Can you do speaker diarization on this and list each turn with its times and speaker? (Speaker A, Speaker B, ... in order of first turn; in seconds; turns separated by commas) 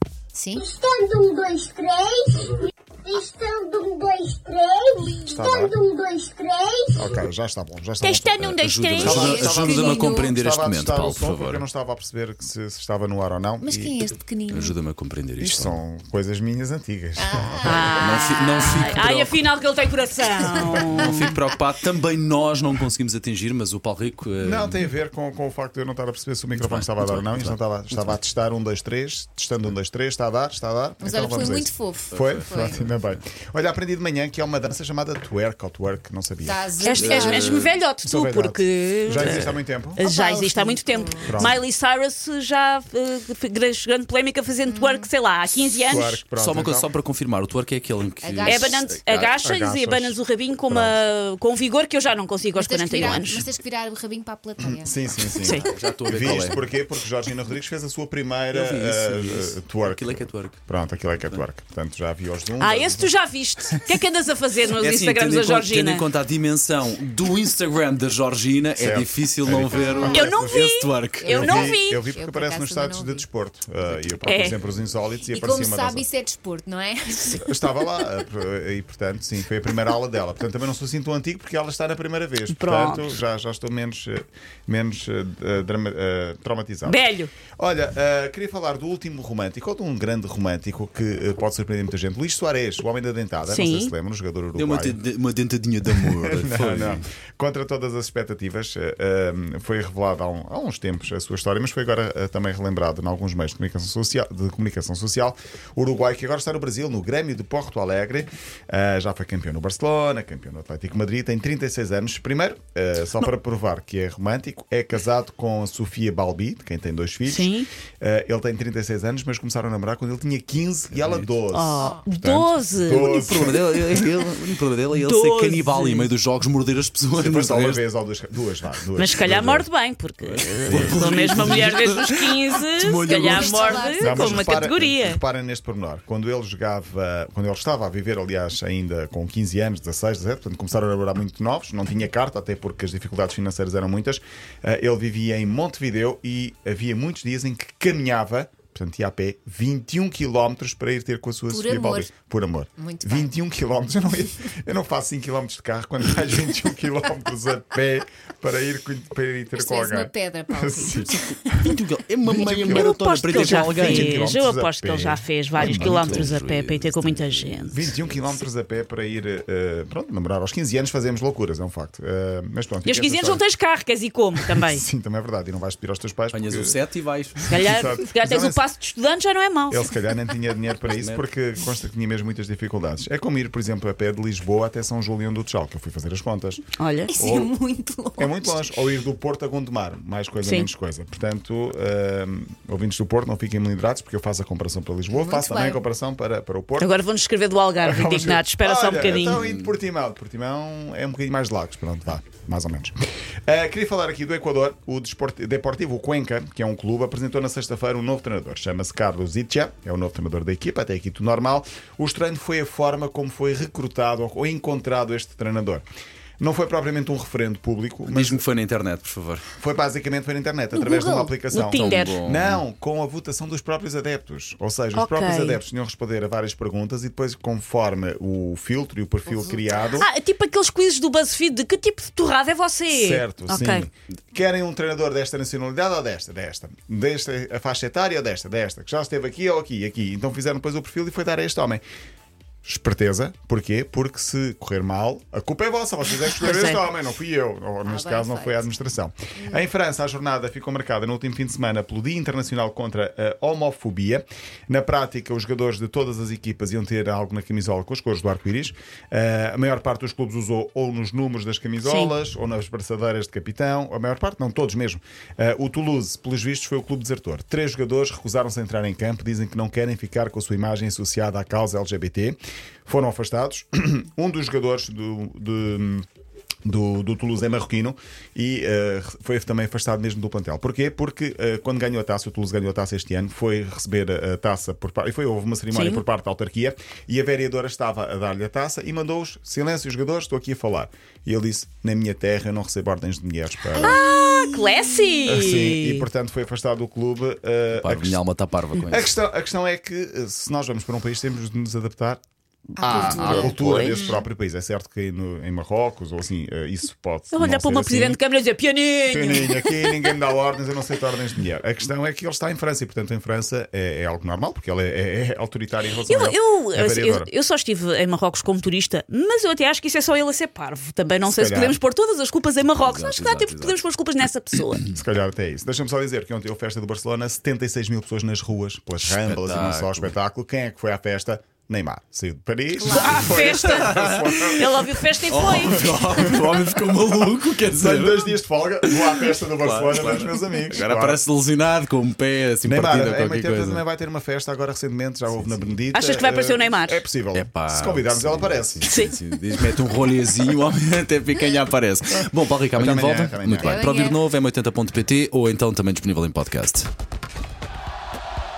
Speaker A: 0.3-0.8, Speaker B: 0.7-2.4, Speaker A: 1.3-1.7, Speaker B: 3.1-6.9, Speaker A: 3.1-7.2, Speaker C: 5.3-5.8, Speaker C: 7.0-14.0, Speaker D: 8.0-10.1, Speaker E: 8.6-11.6, Speaker A: 9.1-10.2, Speaker A: 13.6-14.7, Speaker E: 14.5-15.8, Speaker C: 15.4-17.9, Speaker A: 17.2-18.2, Speaker D: 17.6-21.3, Speaker E: 17.9-19.4, Speaker E: 20.7-24.8, Speaker C: 24.4-36.6, Speaker E: 26.5-28.2, Speaker A: 31.0-32.8, Speaker E: 32.1-33.2, Speaker A: 36.4-37.6, Speaker D: 36.8-46.2, Speaker E: 36.9-37.8, Speaker C: 38.0-40.0, Speaker E: 39.1-39.6, Speaker A: 40.0-41.3, Speaker C: 41.2-41.6, Speaker A: 44.6-45.1, Speaker C: 45.9-46.9, Speaker E: 46.4-49.3, Speaker A: 48.2-48.9, Speaker D: 48.5-53.4, Speaker C: 49.4-51.0, Speaker A: 52.5-55.7, Speaker C: 53.0-53.5, Speaker C: 54.6-63.1, Speaker D: 55.4-55.7, Speaker E: 55.6-56.6, Speaker E: 58.5-60.6, Speaker D: 62.6-66.0, Speaker E: 64.8-71.4, Speaker C: 68.8-76.0, Speaker A: 69.7-70.3, Speaker D: 70.0-72.0, Speaker A: 71.2-73.3, Speaker D: 74.2-74.5, Speaker A: 75.3-78.0, Speaker C: 77.3-87.0, Speaker D: 82.5-83.2, Speaker D: 86.8-87.3, Speaker C: 87.5-95.0, Speaker D: 93.5-93.9, Speaker E: 94.5-97.0, Speaker C: 95.9-123.6, Speaker D: 117.2-117.7, Speaker E: 120.9-121.3, Speaker D: 121.5-124.0, Speaker A: 121.8-122.0, Speaker E: 123.0-127.8, Speaker D: 124.9-126.1, Speaker C: 127.2-129.7, Speaker D: 128.9-135.2, Speaker E: 130.2-133.8, Speaker C: 130.6-131.7, Speaker A: 133.1-134.6, Speaker C: 134.0-161.1, Speaker A: 151.5-152.1, Speaker A: 152.8-153.3, Speaker A: 159.5-161.3, Speaker E: 161.4-164.3, Speaker D: 162.3-167.8, Speaker C: 162.3-166.3, Speaker E: 165.6-168.1, Speaker C: 167.7-173.4, Speaker D: 172.8-174.8, Speaker C: 174.4-176.8, Speaker E: 176.3-177.6, Speaker C: 177.4-178.6, Speaker D: 177.5-179.9, Speaker C: 179.7-186.6, Speaker E: 180.9-181.2, Speaker D: 186.8-187.3, Speaker A: 187.1-188.8, Speaker C: 187.2-187.5, Speaker C: 188.2-196.9, Speaker D: 190.4-190.7, Speaker A: 195.1-195.8, Speaker D: 196.8-199.4, Speaker C: 197.8-202.9, Speaker E: 199.3-199.7, Speaker C: 203.5-215.8, Speaker C: 216.4-218.4, Speaker E: 218.1-219.4, Speaker C: 219.6-230.1, Speaker D: 220.7-222.2, Speaker E: 221.6-222.6, Speaker D: 224.9-225.6, Speaker A: 229.3-230.0, Speaker D: 229.9-233.9, Speaker C: 232.9-241.8, Speaker C: 242.6-276.0, Speaker D: 246.3-246.8, Speaker A: 247.8-248.8, Speaker A: 249.3-249.7, Speaker D: 261.8-262.1, Speaker C: 276.6-294.0, Speaker D: 285.7-286.0, Speaker A: 293.8-295.4, Speaker D: 293.8-296.1, Speaker C: 295.2-298.2, Speaker E: 297.7-299.1, Speaker C: 298.9-302.2, Speaker D: 302.7-304.2, Speaker A: 302.8-304.2, Speaker C: 302.8-308.2, Speaker D: 307.3-310.0, Speaker C: 309.1-317.3, Speaker D: 316.1-324.8, Speaker C: 321.2-321.8, Speaker E: 322.6-323.9, Speaker C: 324.9-335.0, Speaker E: 329.0-330.1, Speaker D: 332.8-333.9, Speaker A: 332.9-333.3, Speaker E: 333.3-334.6, Speaker D: 334.5-336.3, Speaker E: 335.2-338.3, Speaker C: 335.6-336.4, Speaker C: 337.7-341.2, Speaker E: 338.8-343.8, Speaker C: 342.6-348.9, Speaker E: 345.3-345.8, Speaker D: 345.9-347.0, Speaker E: 347.3-356.9, Speaker D: 348.8-349.1, Speaker C: 352.7-353.8, Speaker A: 353.6-354.3